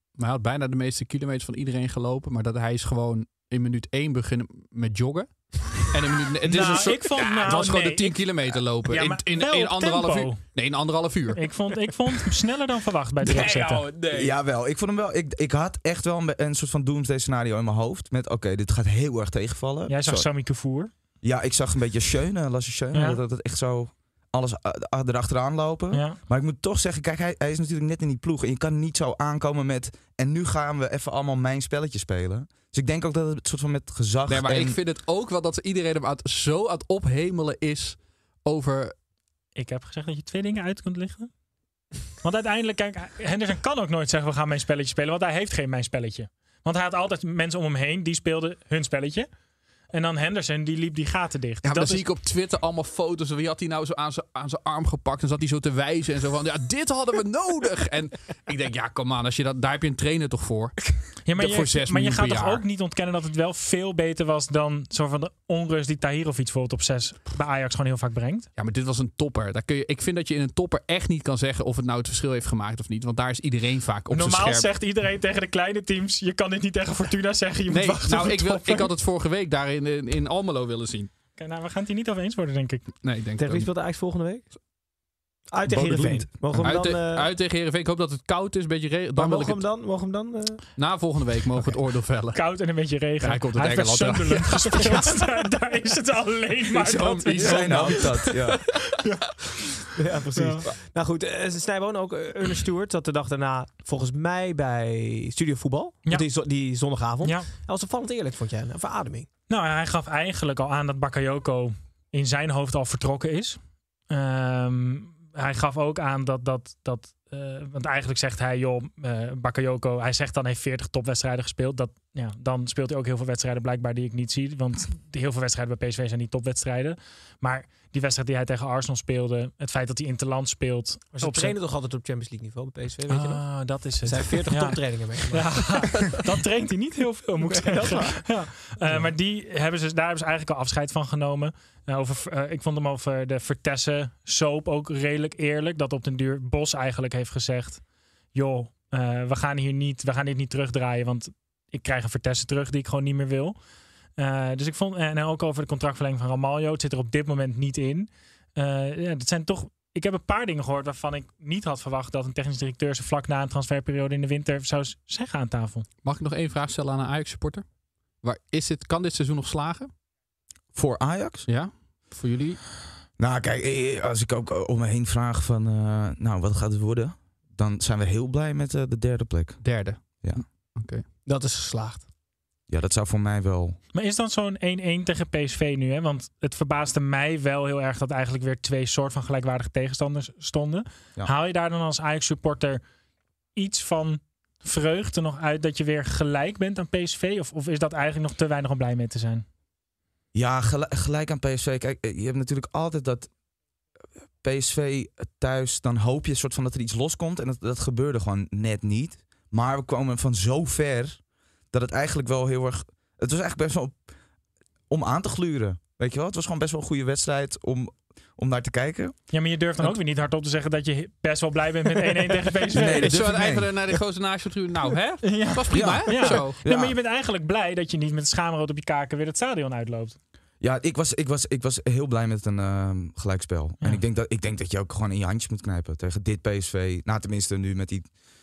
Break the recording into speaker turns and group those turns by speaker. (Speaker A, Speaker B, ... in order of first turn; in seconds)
Speaker A: 0.2-11.5, 13.2-14.3, 34.3-38.9, 51.6-62.6, 68.6-74.7, 77.7-81.1, 83.0-83.7, 86.6-89.6, 90.8-92.4, 93.2-95.1, 96.9-97.8, 166.0-167.6, 168.2-169.9, 171.5-172.6, 179.6-181.0, 222.8-226.6
Speaker B: 6.5-10.4, 11.3-13.9, 19.9-20.9, 22.9-23.2, 25.9-26.2, 39.5-41.3, 42.2-49.3, 49.9-52.0, 61.2-68.5, 74.1-78.9, 81.4-82.8, 92.3-98.4, 98.9-99.8, 100.3-100.6, 107.2-107.5, 109.5-113.6, 114.1-131.5, 133.1-147.8, 148.3-153.6, 154.2-165.8, 183.9-192.8, 193.6-199.4, 219.3-223.1, 225.2-230.2
Speaker C: 14.1-20.3, 21.2-34.8, 85.7-86.7, 97.3-98.7, 170.7-171.5, 173.2-180.4, 182.7-183.8, 200.3-203.3, 204.4-211.2, 211.7-214.0, 214.9-219.2, 222.7-223.8, 225.7-226.9, 230.6-238.1
Speaker D: 83.4-84.5, 85.5-87.3, 89.2-90.7, 96.7-98.1, 99.9-109.3, 131.1-133.4, 134.0-135.9, 137.4-138.3, 181.2-182.1